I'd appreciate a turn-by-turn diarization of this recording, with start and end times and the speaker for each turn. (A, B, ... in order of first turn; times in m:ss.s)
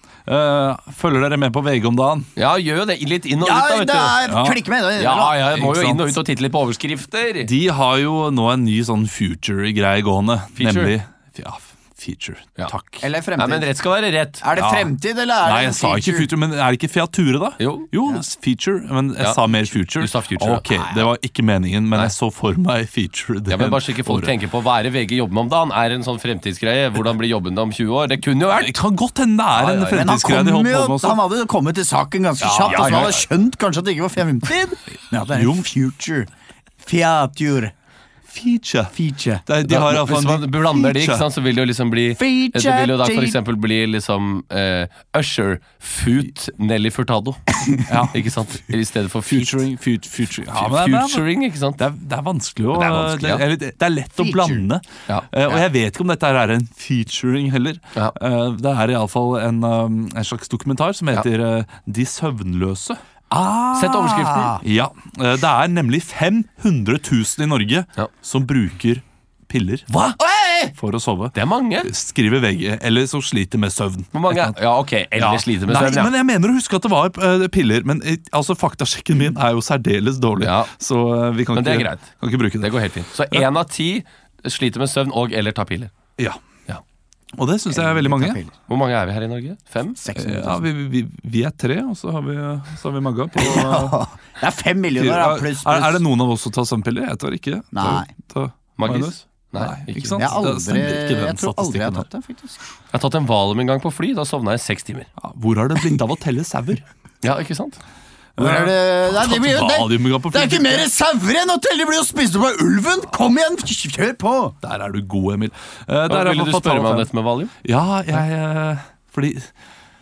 0:00.3-0:02.3 A
0:02.4-0:04.2 B
0:03.4-0:05.4 C
0:04.3-0:04.6 A
0:05.0-0:07.5 B
0:05.5-0:06.2 A
0:07.4-0:13.0 A
0:10.6-0:11.0 B
0:13.0-0:13.7 C
0:13.4-0:14.4 B
0:14.4-0:16.3 C
0:14.6-0:14.9 A
0:15.4-0:24.3 A
0:17.6-0:17.9 B
0:20.0-0:20.6 B
0:23.5-0:28.8 B
0:28.6-0:31.2 A
0:29.5-0:30.0 B
0:29.9-0:36.3 C
0:32.4-0:33.2 B
0:35.3-0:35.7 A
0:36.8-0:37.7 C
0:38.3-0:41.2 A
0:38.9-0:39.4 C
0:39.6-0:47.4 B
0:42.2-0:43.4 C
0:47.9-0:48.2 A
0:48.1-0:49.6 B
0:49.3-1:03.0 A
0:50.5-0:51.8 B
0:52.7-0:53.4 B
0:54.2-0:54.6 C
1:03.3-1:04.6 C
1:03.7-1:04.6 B
1:04.6-1:09.9 A
1:09.9-1:10.2 B
1:10.2-1:10.7 C
1:10.8-1:14.6 A
1:11.3-1:11.9 B
1:14.1-1:16.1 B
1:15.2-1:22.8 A
1:20.4-1:20.7 B
1:21.5-1:25.9 B
1:27.4-1:28.4 A
1:27.7-1:28.5 C
1:28.7-1:30.0 B
1:30.0-1:30.6 C
1:30.2-1:34.0 A
1:33.4-1:36.0 C
1:35.0-1:42.1 A
1:37.7-1:38.1 C
1:38.8-1:40.3 B
1:40.2-1:42.6 C
1:42.9-1:45.1 B
1:45.2-1:46.8 A
1:47.2-1:47.8 B
1:48.4-1:50.9 A
1:48.4-1:54.6 C
1:54.6-1:57.1 A
1:56.1-1:57.5 B
1:57.6-1:59.5 A